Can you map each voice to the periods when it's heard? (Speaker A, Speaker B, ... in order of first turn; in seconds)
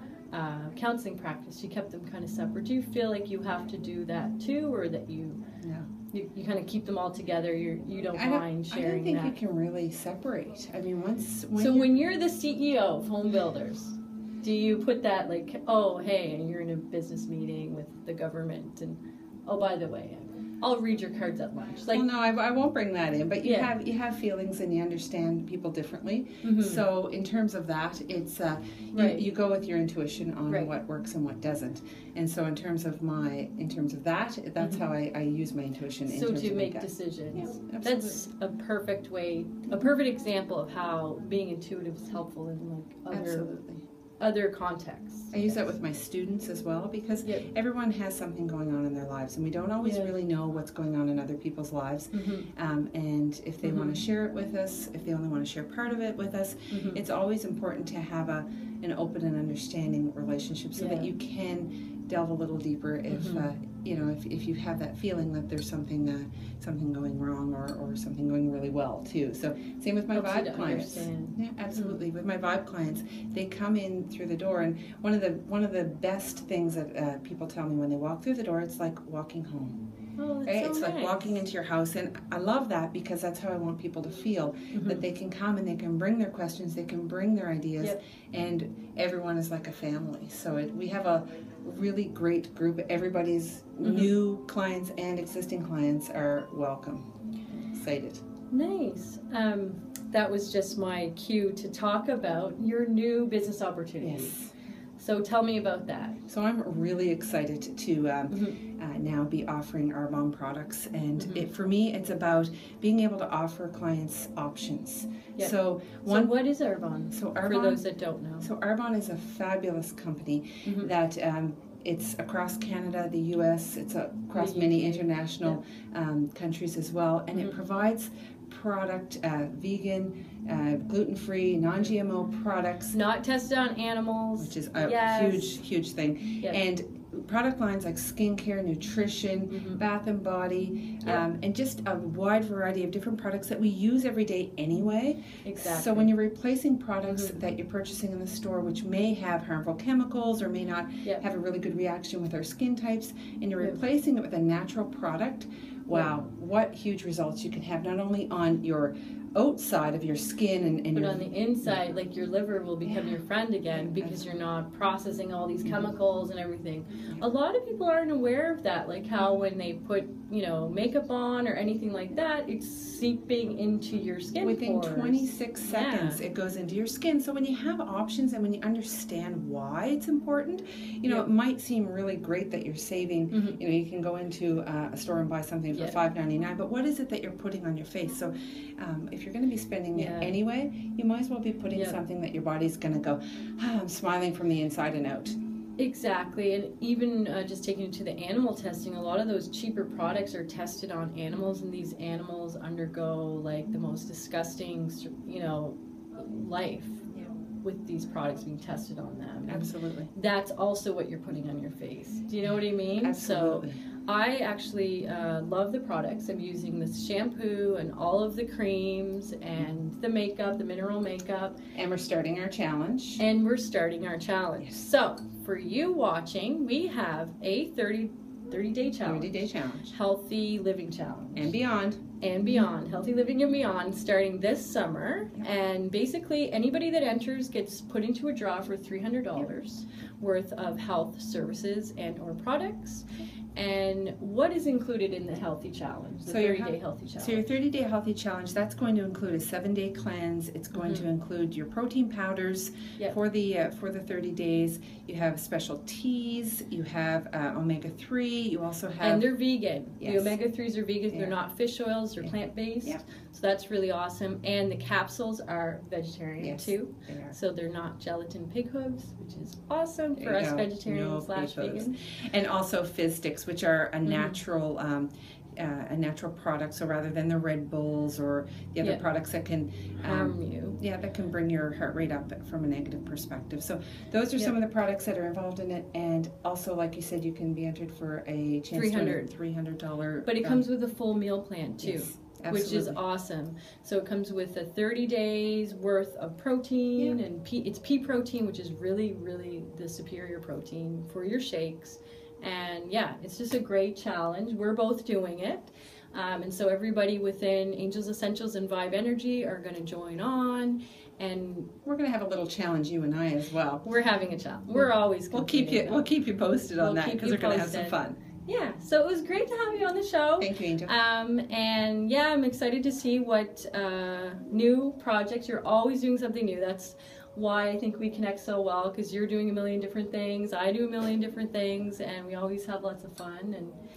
Speaker A: 0.3-5.4, 6.1-9.3, 11.6-22.0, 23.4-23.7, 26.4-26.8, 28.9-29.2, 36.0-43.5, 44.2-45.6, 49.8-50.1, 52.1-52.5, 53.6-54.0, 56.7-57.0, 60.8-61.1, 63.1-63.4, 70.1-71.9, 80.2-81.3, 84.7-85.0, 93.8-94.1, 98.5-104.3, 105.0-106.2, 108.3-108.6, 111.2-111.4, 116.0-118.5, 120.6-120.9, 124.3-125.6, 132.9-135.5, 139.5-139.8, 145.4-146.1, 147.1-147.3, 160.9-176.2, 183.3-183.6, 189.9-190.3, 191.7-192.0, 195.8-207.1, 207.6-221.6, 223.2-229.3, 229.9-231.5, 232.2-243.0, 243.5-247.5, 250.7-251.0, 259.0-271.9, 274.1-274.4, 280.0-280.8, 288.7-289.3, 290.2-311.7, 313.8-316.0, 316.8-333.8
Speaker B: 5.6-5.9, 8.1-11.9, 21.9-38.2, 43.1-43.8, 45.3-79.8, 80.5-98.2, 104.0-104.5, 106.3-116.3, 117.1-117.8, 118.4-132.9, 134.4-161.2, 162.8-163.2, 163.7-164.3, 174.4-195.3, 209.5-210.1, 213.0-213.8, 221.7-223.2, 229.0-229.9, 231.3-232.0, 246.3-259.3, 260.0-260.4, 261.1-261.4, 266.4-267.4, 270.2-290.6, 291.8-293.0, 311.8-313.8, 314.7-318.2, 320.4-320.9